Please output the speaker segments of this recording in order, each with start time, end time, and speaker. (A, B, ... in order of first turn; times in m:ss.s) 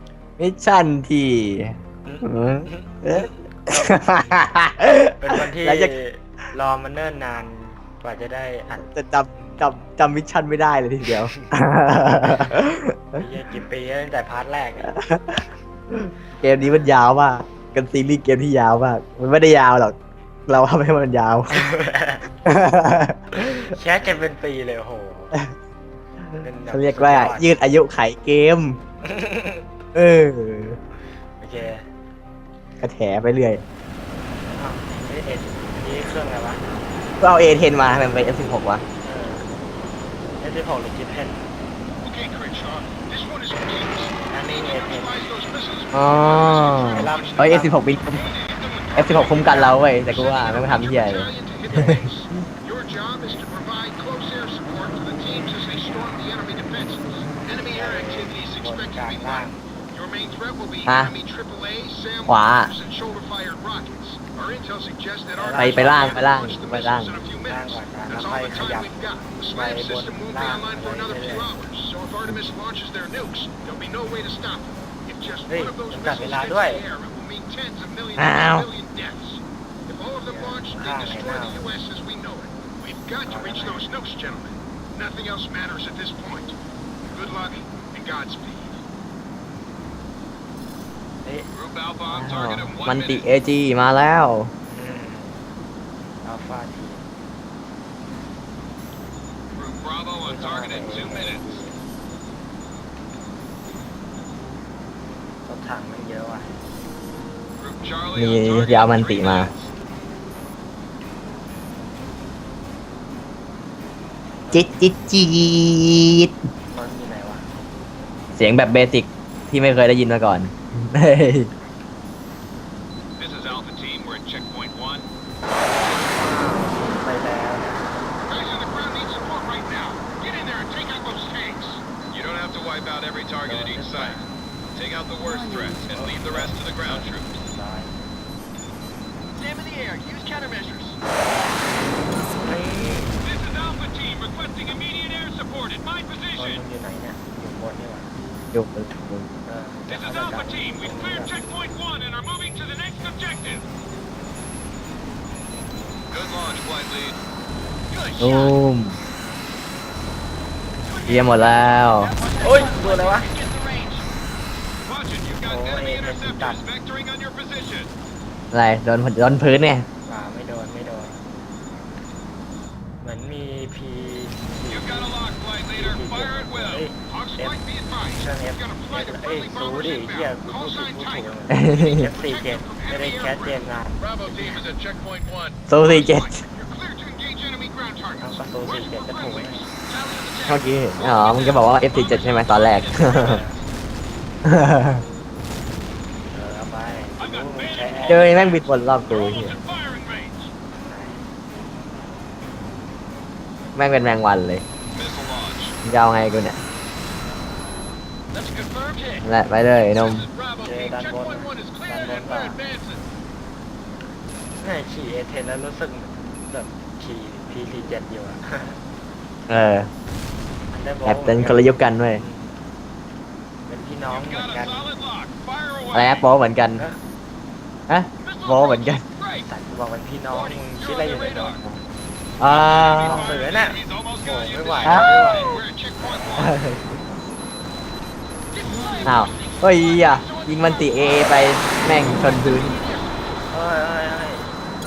0:00.4-0:05.9 A
0:02.0-0:04.4 B
0:05.2-0:09.7 B
0:08.9-0:13.2 A
0:12.3-0:12.5 B
0:13.1-0:15.0 B
0:14.9-0:20.0 A
0:16.5-0:16.9 B
0:20.5-0:21.7 A
0:21.5-0:22.3 B
0:22.4-0:23.2 A
0:23.3-0:25.4 B
0:26.4-0:27.6 B
0:26.7-0:28.8 A
0:29.0-0:29.6 B
0:29.9-0:30.8 A
0:31.4-0:31.8 B
0:32.8-0:33.6 A
0:34.5-0:36.8 B
0:37.2-0:38.8 A
0:39.0-0:39.5 B
0:40.4-0:41.4 B
0:42.0-0:59.4 C
0:44.3-0:45.2 B
0:45.9-0:48.3 A
0:46.8-0:47.8 B
0:49.0-0:52.0 A
0:51.7-0:52.0 B
0:57.5-0:59.7 B
0:59.9-1:07.5 C
1:00.9-1:01.1 A
1:02.3-1:02.7 A
1:05.3-1:06.3 B
1:05.6-1:07.2 A
1:07.5-1:11.5 B
1:08.1-1:26.5 C
1:15.5-1:16.9 B
1:18.2-1:18.7 A
1:20.2-1:21.7 B
1:23.2-1:23.9 B
1:27.1-1:28.8 C
1:31.5-1:33.3 C
1:32.1-1:34.5 A
1:34.7-1:35.5 B
1:36.2-1:37.0 B
1:39.6-1:41.4 C
1:40.2-1:41.8 B
1:45.5-1:46.6 B
1:47.6-1:49.7 C
1:48.2-1:49.5 A
1:54.4-1:54.9 B
1:54.5-1:56.3 A
1:56.7-1:57.5 B
1:58.4-2:01.5 A
2:03.2-2:06.1 C
2:05.8-2:08.1 B
2:08.3-2:14.2 C
2:13.4-2:14.4 B
2:14.7-2:17.3 C
2:15.8-2:18.0 B
2:19.4-2:21.0 C
2:22.4-2:23.3 B
2:23.2-2:26.6 C
2:26.4-2:28.1 B
2:28.5-2:29.3 A
2:29.4-2:31.4 B
2:29.9-2:33.6 C
2:36.1-2:37.2 C
2:37.9-2:38.4 C
2:38.2-2:39.0 A
2:40.9-2:44.0 C
2:41.1-2:42.1 A
2:42.4-2:43.3 B
2:44.8-2:47.9 C
2:45.4-2:46.6 B
2:48.5-2:49.9 A
2:50.1-2:51.2 B
2:53.0-2:55.1 B
2:54.7-2:58.1 C
2:55.8-2:57.6 B
2:58.1-3:04.6 B
2:58.7-3:00.4 C
3:01.5-3:02.0 A
3:01.9-3:03.1 C
3:04.0-3:08.1 C
3:05.7-3:06.4 A
3:08.2-3:09.7 B
3:08.8-3:13.5 C
3:10.5-3:13.4 A
3:13.0-3:13.5 B
3:14.4-3:15.0 A
3:16.3-3:18.6 B
3:17.2-3:20.5 C
3:18.1-3:19.6 A
3:20.7-3:21.2 B
3:23.8-3:24.6 A
3:24.9-3:25.8 C
3:25.8-3:26.6 A
3:28.4-3:29.2 C
3:29.2-3:30.3 A
3:30.2-3:33.0 C
3:30.6-3:32.6 B
3:34.6-3:38.8 B
3:39.5-3:39.9 A
3:40.7-3:42.6 B
3:41.0-3:42.2 A
3:43.7-3:44.9 B
3:44.1-3:46.2 C
3:45.9-3:46.8 A
3:47.9-3:49.0 A
3:48.2-3:49.4 C
3:49.3-3:51.7 B
3:50.4-3:51.6 C
3:52.4-3:53.4 A
3:52.5-3:56.6 C
3:53.0-3:55.6 B
3:56.4-3:57.0 A
3:58.6-4:01.2 C
3:59.0-4:02.8 A
4:02.4-4:03.1 C
4:03.5-4:04.6 B